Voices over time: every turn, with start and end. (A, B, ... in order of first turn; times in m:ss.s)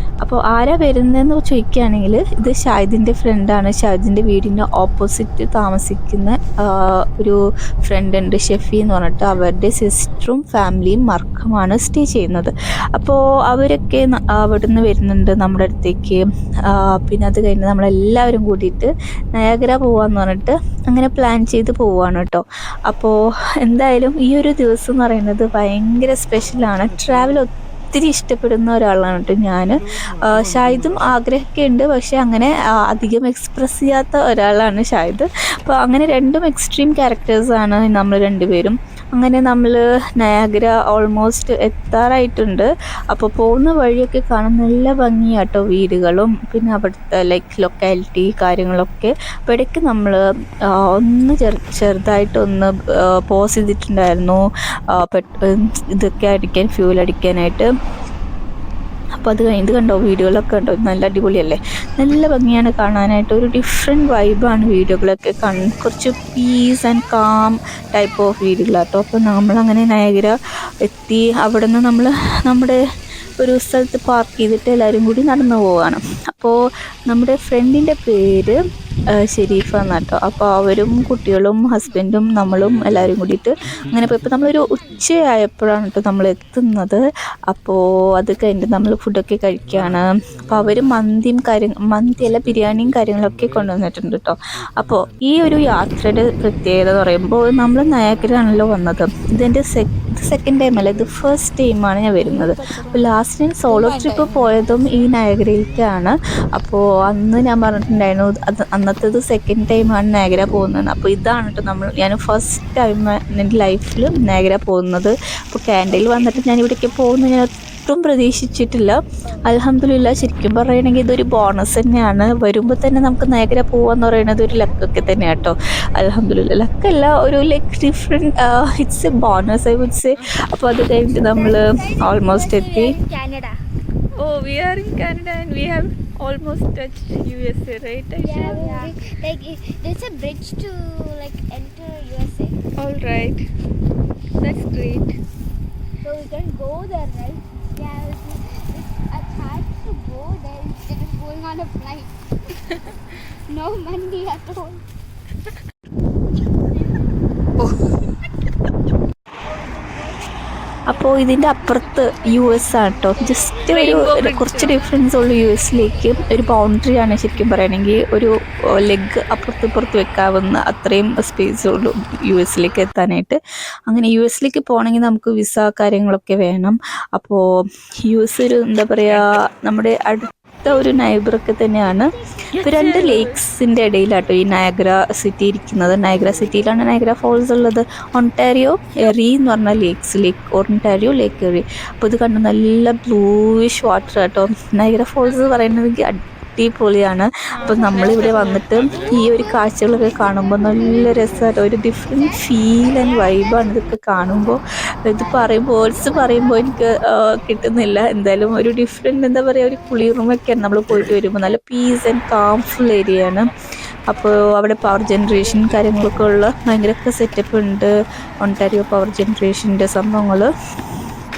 0:00.2-0:57.7 A
0:59.2-1:12.8 A
1:13.4-2:13.0 A
1:42.2-1:44.8 B
2:11.2-2:13.6 C
2:14.2-2:18.9 B
2:18.2-2:22.6 C
2:22.8-2:23.5 B
2:24.4-2:25.2 B
2:26.0-2:34.8 C
2:39.5-2:40.2 C
2:40.9-2:57.4 A
2:41.5-2:43.2 C
2:43.7-2:44.9 B
2:58.0-3:33.5 A
3:02.5-3:03.4 B
3:17.5-3:18.9 B
3:18.9-3:19.4 C
3:20.4-3:21.2 C
3:22.1-3:23.7 C
3:25.5-3:26.7 C
3:34.1-3:40.5 A